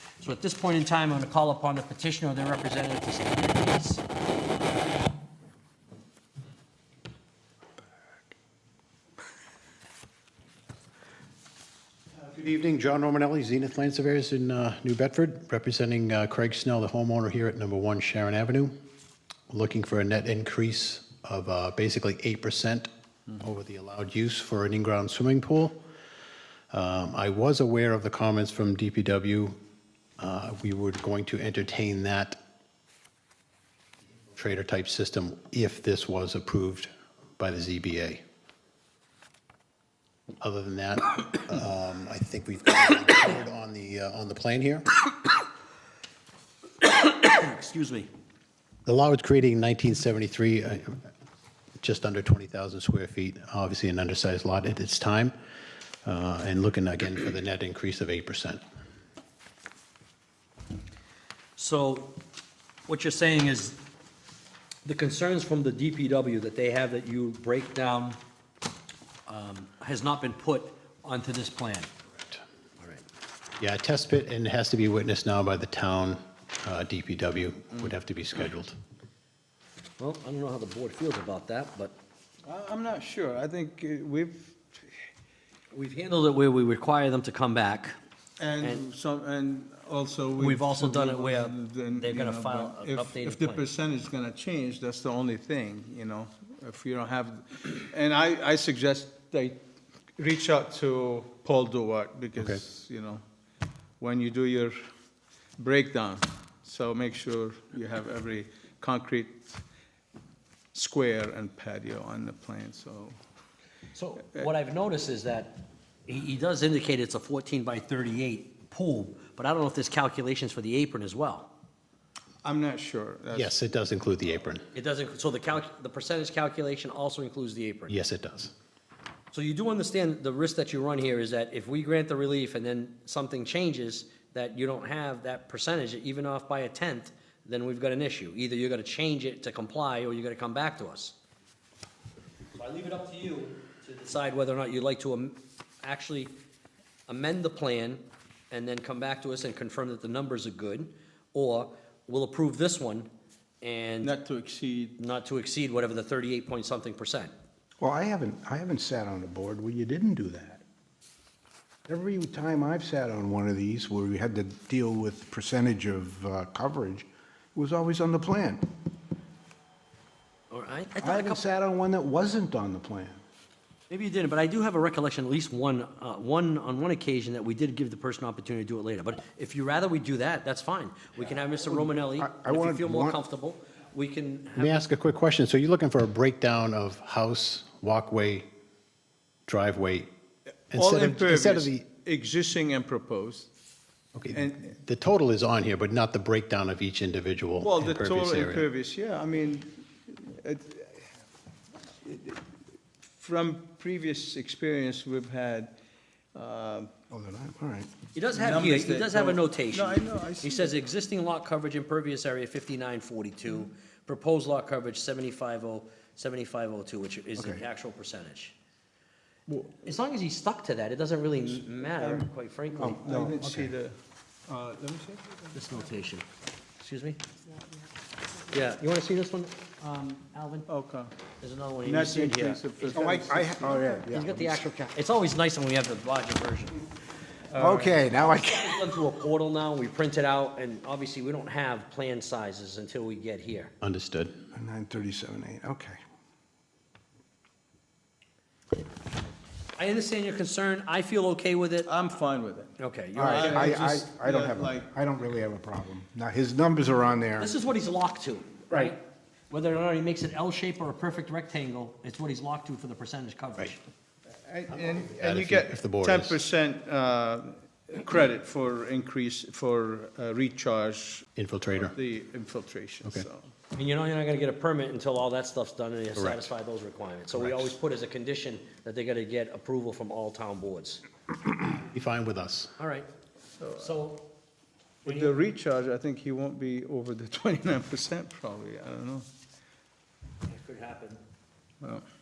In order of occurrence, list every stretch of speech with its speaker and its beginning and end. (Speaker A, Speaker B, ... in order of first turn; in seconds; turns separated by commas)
Speaker A: 0.2-4.0, Speaker B: 12.1-18.7, Speaker B: 19.5-25.8, Speaker B: 26.7-29.6, Speaker B: 30.2-32.4, Speaker B: 34.4-38.2, Speaker B: 40.4-44.9, Speaker A: 47.0-48.1, Speaker B: 48.9-51.0, Speaker B: 51.8-55.3, Speaker B: 56.0-58.6, Speaker A: 61.5-62.2, Speaker A: 62.9-63.8, Speaker A: 64.8-68.2, Speaker A: 69.3-71.9, Speaker B: 73.6-78.8, Speaker A: 80.0-81.9, Speaker C: 82.5-84.9, Speaker A: 85.7-88.0, Speaker C: 88.4-99.6, Speaker A: 90.4-93.6, Speaker C: 100.2-103.2, Speaker C: 104.0-104.8, Speaker C: 105.6-109.6, Speaker C: 110.7-113.2, Speaker A: 113.9-121.5, Speaker C: 122.4-123.5, Speaker B: 123.3-124.6, Speaker A: 124.7-127.9, Speaker B: 127.9-128.5, Speaker A: 129.3-141.1, Speaker A: 142.5-146.3, Speaker A: 147.1-153.1, Speaker A: 153.6-154.1, Speaker C: 154.0-155.0, Speaker A: 155.0-157.3, Speaker D: 157.8-160.6, Speaker D: 161.9-168.7, Speaker A: 170.5-171.4, Speaker D: 171.0-173.2, Speaker A: 173.9-184.8, Speaker D: 181.6-183.2, Speaker B: 184.6-188.5, Speaker B: 189.5-190.1, Speaker B: 190.7-191.8, Speaker C: 190.7-193.5, Speaker B: 194.1-198.7, Speaker C: 194.3-194.7, Speaker C: 197.6-201.0, Speaker C: 202.0-202.4, Speaker C: 203.2-205.7, Speaker C: 206.3-206.9, Speaker D: 207.1-207.9, Speaker A: 208.1-218.5, Speaker C: 208.3-210.8, Speaker D: 217.4-217.6, Speaker A: 219.7-223.0, Speaker C: 221.9-222.2, Speaker D: 222.8-223.7, Speaker C: 222.8-225.5, Speaker A: 225.5-226.2, Speaker A: 226.8-227.2, Speaker A: 228.5-230.7, Speaker C: 230.7-231.1, Speaker A: 231.4-232.6, Speaker C: 231.8-234.0, Speaker D: 232.8-234.6, Speaker A: 234.1-236.8, Speaker C: 237.5-238.0, Speaker D: 237.6-238.8, Speaker A: 237.8-243.7, Speaker B: 243.8-244.4, Speaker D: 244.5-246.0, Speaker A: 249.8-251.9, Speaker C: 251.9-252.7, Speaker A: 252.8-253.8, Speaker D: 253.1-257.5, Speaker C: 253.2-254.9, Speaker A: 257.4-263.8, Speaker C: 264.4-273.5, Speaker B: 264.8-266.4, Speaker B: 271.4-271.9, Speaker A: 273.7-281.0, Speaker B: 276.1-276.5, Speaker B: 277.3-277.8, Speaker B: 281.6-282.7, Speaker A: 282.8-283.1, Speaker C: 283.6-283.9, Speaker A: 283.8-284.3, Speaker C: 285.0-289.3, Speaker A: 285.1-285.4, Speaker A: 290.4-291.2